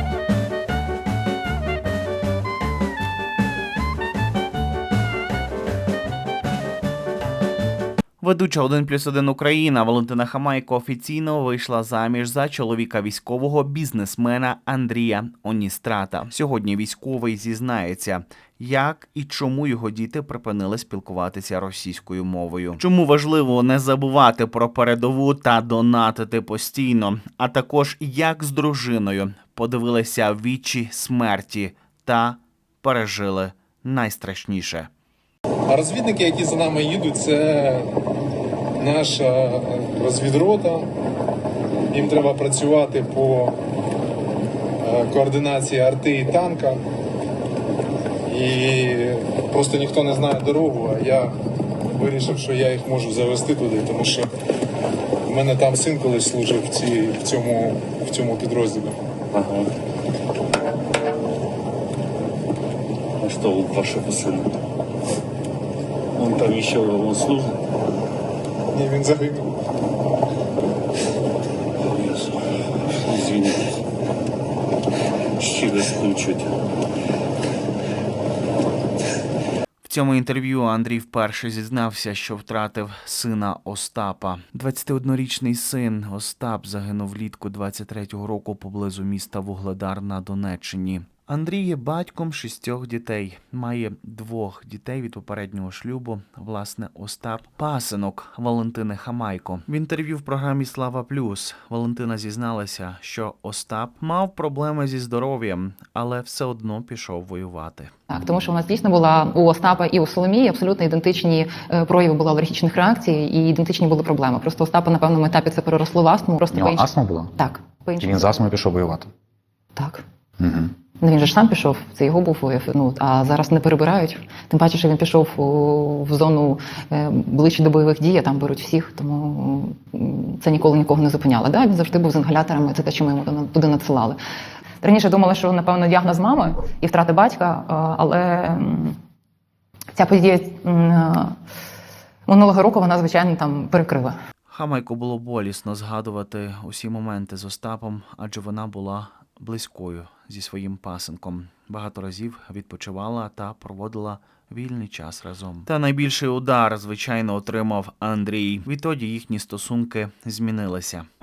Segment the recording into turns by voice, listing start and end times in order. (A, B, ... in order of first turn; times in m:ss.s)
0:08.2-0:34.9 A
0:36.3-0:37.9 B
0:39.0-0:40.4 B
0:42.1-0:42.4 B
0:43.1-0:43.5 B
0:44.9-0:46.3 B
0:48.3-0:51.3 B
0:52.0-0:54.3 B
0:55.4-0:58.9 B
0:59.3-0:59.7 C
1:03.2-1:04.5 C
1:06.2-1:07.5 C
1:08.7-1:09.4 B
1:11.8-1:12.4 C
1:13.0-1:13.6 C
1:15.4-1:16.5 C
1:19.8-1:47.9 A
1:48.1-1:58.3 D
1:56.5-1:57.3 E
1:58.0-1:59.1 E
1:59.8-2:00.0 D
2:00.4-2:00.7 E
2:01.0-2:14.2 D
2:14.8-2:19.0 D
2:20.0-2:21.3 D
2:22.3-2:24.1 D
2:24.5-2:41.0 A